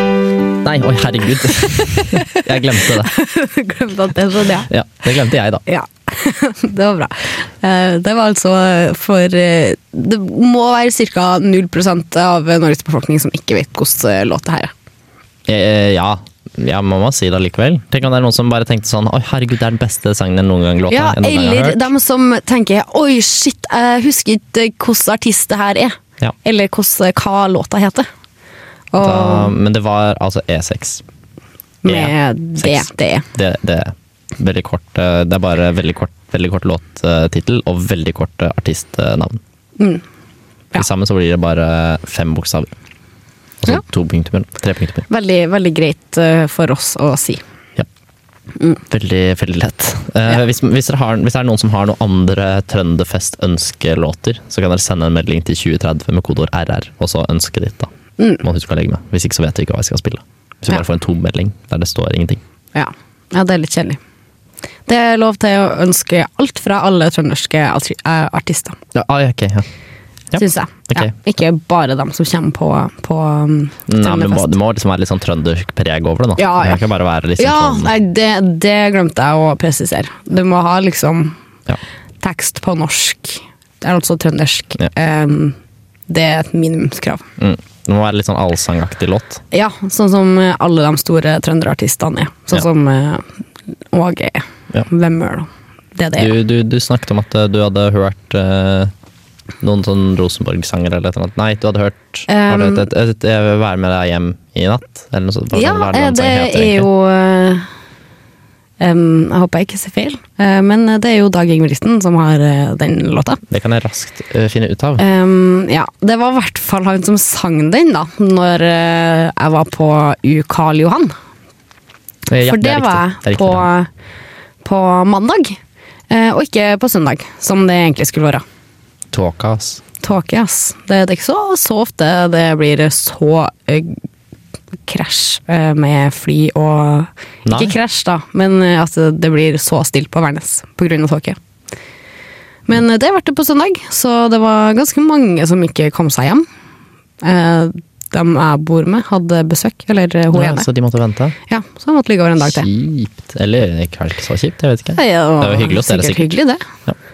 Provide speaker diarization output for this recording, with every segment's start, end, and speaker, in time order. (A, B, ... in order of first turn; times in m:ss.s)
0:00.6-0:03.1 A
0:01.8-0:04.7 B
0:04.7-0:05.6 A
0:05.6-0:14.7 B
0:15.5-0:21.8 A
0:20.9-0:28.1 B
0:28.9-0:29.5 B
0:29.0-0:31.0 A
0:31.8-0:33.2 B
0:31.8-0:39.4 A
0:39.8-0:40.0 B
0:40.8-0:42.7 A
0:43.6-0:45.0 A
0:45.1-0:47.4 B
0:48.9-1:02.4 A
1:02.7-1:04.0 B
1:04.9-1:08.8 B
1:08.9-1:09.7 A
1:10.3-1:11.1 A
1:10.4-1:14.6 B
1:13.9-1:17.9 A
1:16.4-1:16.8 B
1:17.4-1:21.4 B
1:22.2-1:25.6 B
1:26.1-1:27.2 B
1:27.4-1:29.4 A
1:29.5-1:33.3 B
1:33.9-1:36.3 B
1:36.2-1:38.9 A
1:39.6-1:46.9 A
1:42.3-1:42.9 B
1:45.5-1:47.6 B
1:48.8-1:53.4 B
1:53.5-1:55.0 A
1:55.0-2:01.1 B
2:02.3-2:03.7 A
2:02.4-2:03.9 B
2:04.6-2:05.6 B
2:06.1-2:08.4 B
2:09.1-2:09.8 A
2:10.0-2:14.0 B
2:14.9-2:21.4 B
2:17.4-2:17.8 A
2:22.7-2:26.4 B
2:27.2-2:30.7 B
2:30.3-2:31.4 A
2:31.5-2:32.7 B
2:32.4-2:36.3 A
2:35.0-2:36.6 B